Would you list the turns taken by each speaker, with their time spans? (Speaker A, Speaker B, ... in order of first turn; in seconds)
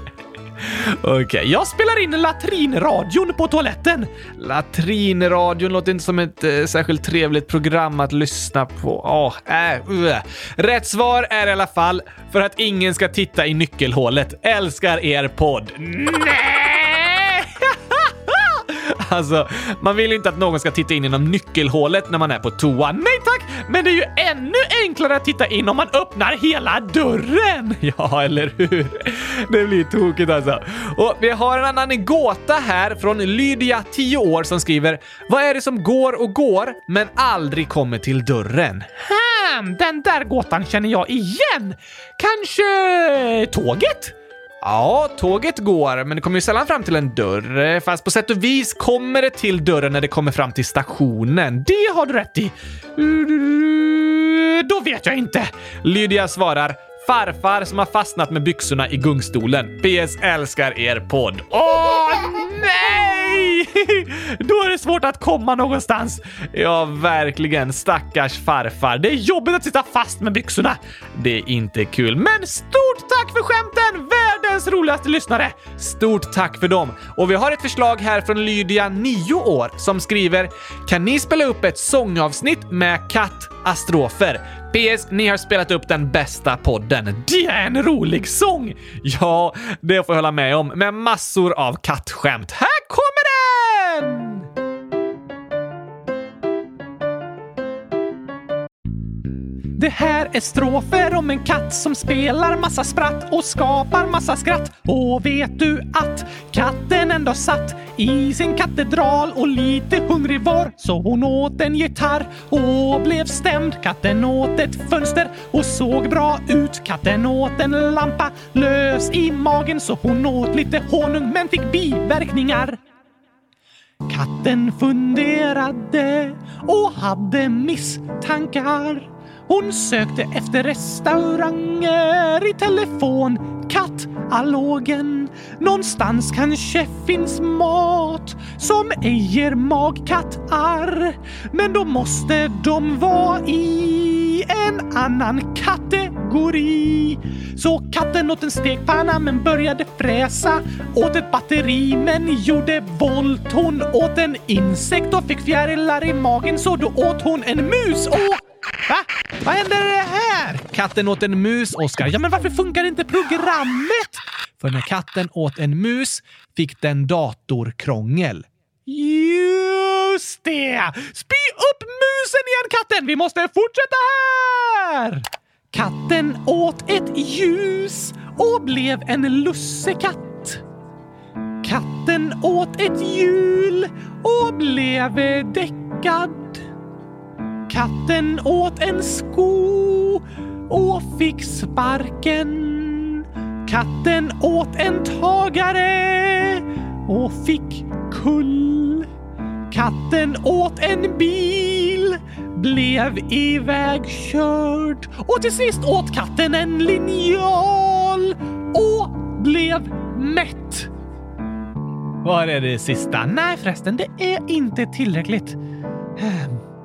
Speaker A: 0.6-94.5, 99.7-122.8, 124.1-180.6, 181.6-186.6, 187.7-199.1, 199.7-210.9, 212.2-215.6, 216.2-216.6